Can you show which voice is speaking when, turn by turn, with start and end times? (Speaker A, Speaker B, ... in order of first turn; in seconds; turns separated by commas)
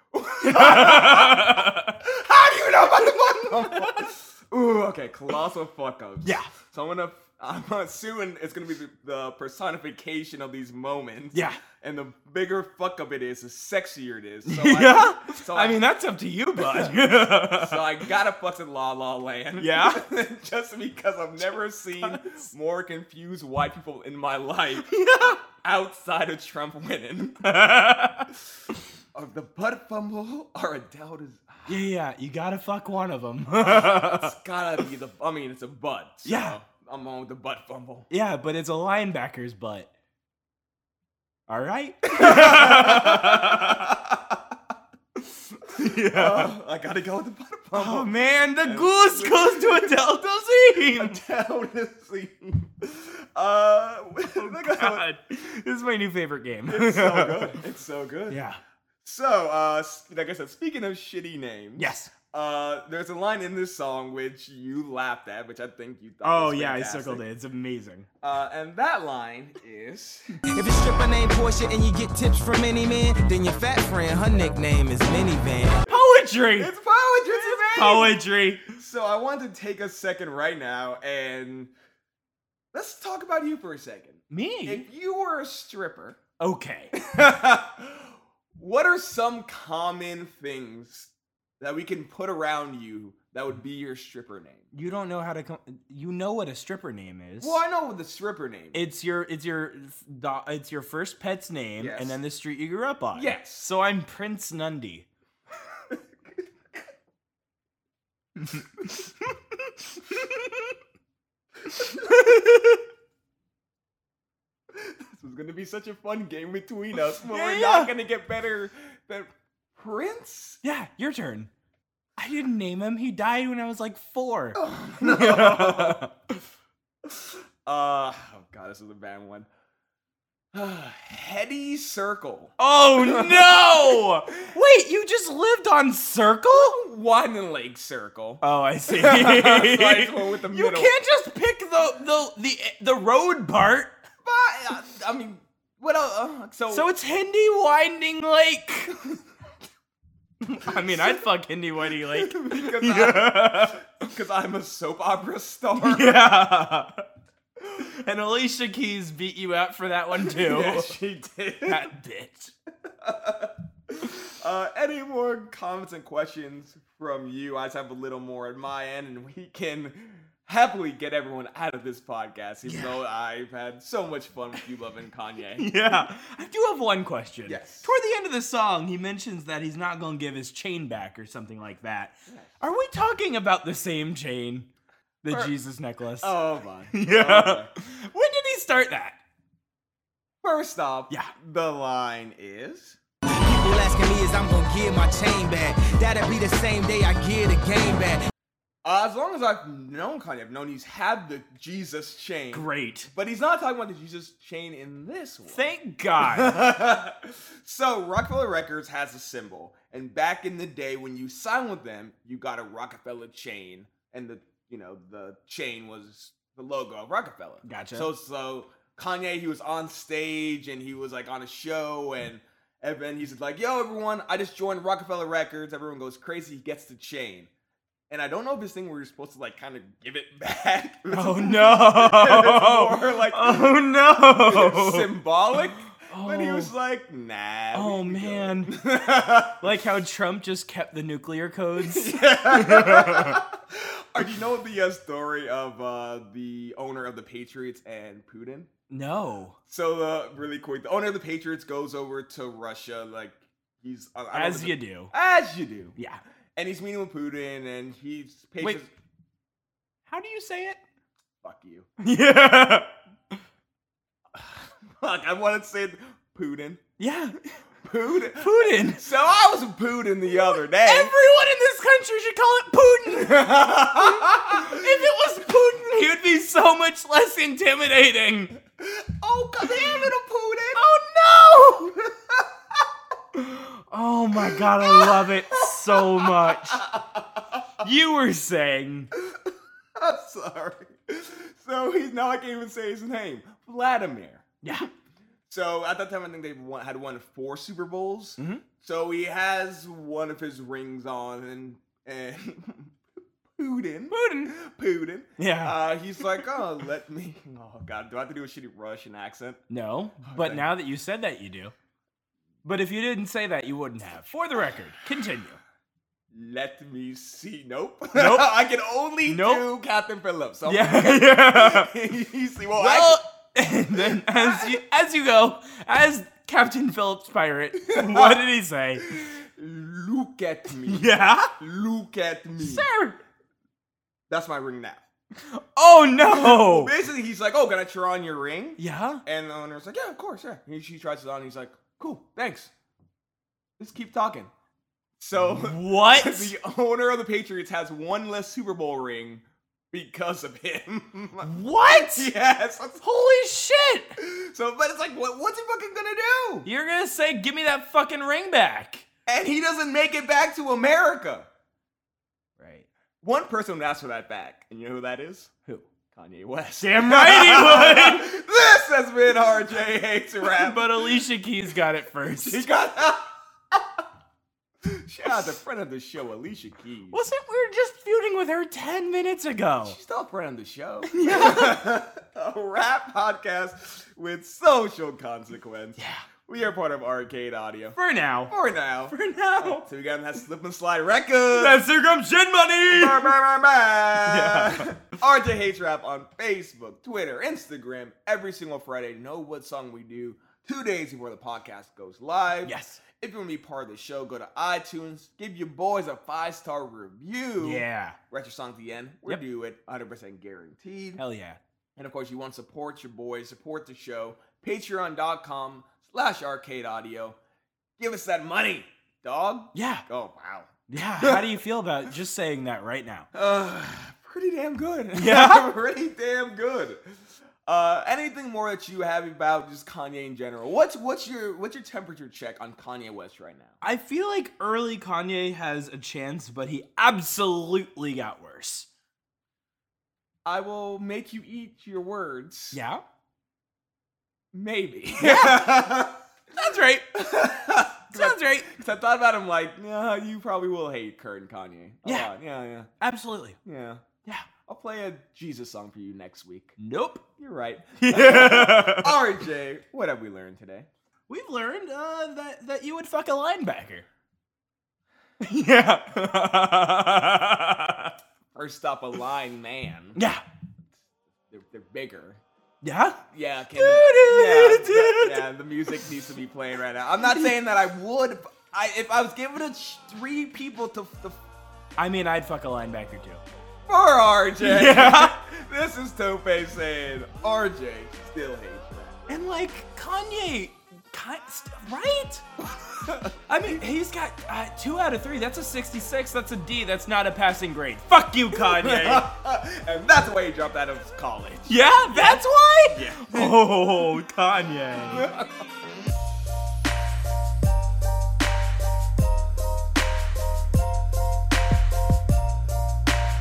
Speaker A: 0.1-15.8, Speaker B: 0.4-2.0, Speaker B: 3.7-4.1, Speaker B: 6.2-6.5, Speaker B: 11.3-11.6, Speaker B: 14.4-17.9, Speaker A: 17.5-24.9, Speaker B: 19.6-20.1, Speaker B: 22.0-22.3, Speaker B: 24.9-25.4, Speaker A: 25.6-27.4, Speaker B: 27.4-28.3, Speaker A: 29.1-31.8, Speaker B: 31.7-34.3, Speaker A: 33.6-38.1, Speaker B: 36.2-36.6, Speaker B: 38.1-39.9, Speaker B: 41.5-43.8, Speaker A: 42.1-44.5, Speaker B: 45.6-46.5, Speaker A: 46.1-48.1, Speaker B: 47.7-51.2, Speaker A: 48.6-49.9, Speaker A: 50.9-55.0, Speaker B: 54.3-57.6, Speaker A: 56.7-58.4, Speaker B: 58.3-58.6, Speaker A: 59.0-67.2, Speaker B: 61.8-62.1, Speaker B: 66.2-68.1, Speaker A: 68.2-70.4, Speaker C: 70.5-75.8, Speaker B: 75.9-76.7, Speaker A: 76.6-78.2, Speaker B: 77.3-78.8, Speaker A: 78.7-81.7, Speaker A: 82.7-86.2, Speaker B: 84.3-84.8, Speaker B: 86.4-87.0, Speaker A: 86.9-94.6, Speaker B: 94.7-97.6, Speaker A: 97.4-98.8, Speaker B: 98.7-105.1, Speaker A: 101.8-102.2, Speaker A: 103.1-103.7, Speaker B: 110.0-110.7, Speaker B: 111.8-112.8, Speaker A: 114.7-120.6, Speaker B: 117.2-117.9, Speaker B: 120.6-121.5, Speaker B: 122.2-126.1, Speaker A: 124.6-126.0, Speaker A: 127.7-129.5, Speaker A: 130.5-134.1, Speaker B: 132.6-136.8, Speaker A: 136.5-140.9, Speaker B: 138.4-143.9, Speaker A: 144.2-146.9, Speaker B: 146.7-148.9, Speaker B: 150.4-153.9, Speaker A: 150.9-151.2, Speaker A: 152.1-156.3, Speaker B: 155.8-157.0, Speaker B: 157.7-160.9, Speaker A: 160.2-161.9, Speaker B: 161.6-162.5, Speaker A: 162.9-175.7, Speaker B: 172.7-172.9, Speaker B: 175.6-184.7, Speaker A: 177.5-177.9, Speaker A: 182.3-182.6, Speaker B: 185.2-186.4, Speaker A: 186.2-187.7, Speaker B: 186.9-189.2, Speaker A: 190.4-193.0, Speaker C: 193.3-198.2, Speaker A: 198.8-205.6, Speaker B: 202.5-203.1, Speaker B: 205.5-206.6, Speaker A: 206.2-227.5, Speaker B: 217.6-218.1, Speaker A: 228.1-233.7, Speaker B: 231.1-235.1, Speaker A: 234.4-239.7, Speaker B: 235.9-236.7, Speaker B: 237.7-238.7, Speaker B: 239.4-243.4, Speaker A: 241.8-248.7, Speaker B: 248.9-249.6, Speaker A: 249.7-255.9, Speaker B: 254.3-255.1, Speaker A: 256.6-258.9, Speaker B: 260.1-260.8, Speaker A: 261.4-261.9, Speaker B: 262.0-262.9, Speaker A: 264.3-266.8, Speaker B: 267.0-267.4, Speaker A: 267.8-271.1, Speaker B: 268.3-269.0, Speaker B: 270.4-278.6, Speaker A: 273.4-274.9, Speaker A: 278.8-280.8, Speaker B: 280.7-281.9, Speaker A: 282.1-282.8, Speaker B: 283.3-286.8, Speaker A: 284.4-287.8, Speaker B: 287.8-289.1, Speaker A: 289.2-294.6, Speaker B: 294.6-294.9, Speaker A: 295.5-302.9, Speaker B: 298.4-298.6, Speaker A: 303.6-309.6, Speaker B: 304.1-304.6, Speaker B: 305.4-306.4, Speaker B: 309.7-311.7, Speaker A: 310.2-310.6, Speaker B: 312.6-315.6, Speaker A: 316.3-323.2, Speaker B: 318.1-318.5, Speaker B: 319.2-319.7, Speaker B: 320.6-321.9, Speaker B: 322.8-329.3, Speaker A: 323.9-324.8, Speaker A: 327.8-328.4, Speaker A: 329.0-332.9, Speaker B: 330.9-331.5, Speaker B: 332.6-333.2, Speaker A: 334.3-335.0, Speaker B: 335.5-336.9, Speaker A: 336.3-342.7, Speaker B: 338.8-339.2, Speaker A: 343.8-344.5, Speaker A: 345.2-353.0, Speaker B: 345.4-346.5, Speaker B: 351.4-352.3, Speaker B: 353.0-354.2, Speaker A: 354.2-356.7, Speaker B: 356.6-359.0, Speaker A: 359.3-361.5, Speaker B: 362.6-362.9, Speaker A: 363.2-365.5, Speaker A: 366.1-371.2, Speaker B: 366.8-368.4, Speaker B: 370.5-372.7, Speaker A: 372.4-374.0, Speaker A: 374.8-377.2, Speaker B: 377.1-380.0, Speaker A: 379.8-388.0, Speaker B: 381.1-381.9, Speaker B: 386.0-386.2, Speaker B: 387.9-388.5, Speaker A: 388.5-391.8, Speaker B: 389.1-389.8, Speaker B: 391.5-393.3, Speaker A: 392.9-411.2, Speaker B: 394.2-395.0, Speaker B: 402.6-403.0, Speaker B: 407.6-408.2, Speaker B: 411.2-411.6, Speaker A: 412.0-417.4, Speaker A: 418.0-421.6, Speaker B: 419.7-420.0, Speaker B: 420.9-423.3, Speaker A: 423.3-433.8, Speaker B: 425.1-425.6, Speaker B: 433.8-438.9, Speaker A: 440.4-442.8, Speaker B: 442.7-443.0, Speaker A: 444.5-446.2, Speaker B: 445.2-445.9, Speaker B: 446.6-447.2, Speaker A: 447.1-452.9, Speaker B: 448.1-448.7, Speaker B: 452.0-452.3, Speaker B: 453.0-453.6, Speaker A: 453.6-454.0, Speaker A: 454.6-456.8, Speaker B: 456.8-457.2, Speaker A: 457.4-460.9, Speaker B: 458.0-459.2, Speaker B: 461.3-464.1, Speaker B: 465.4-468.1, Speaker A: 468.5-470.2, Speaker B: 470.1-470.4, Speaker A: 471.5-472.4, Speaker B: 472.8-473.2, Speaker A: 473.3-481.4, Speaker B: 473.7-475.4, Speaker B: 482.0-483.4, Speaker A: 483.9-489.2, Speaker B: 484.6-485.4, Speaker B: 489.3-492.4, Speaker A: 493.0-493.8, Speaker B: 493.5-499.3, Speaker A: 498.5-503.8, Speaker B: 501.7-505.3, Speaker A: 505.1-505.6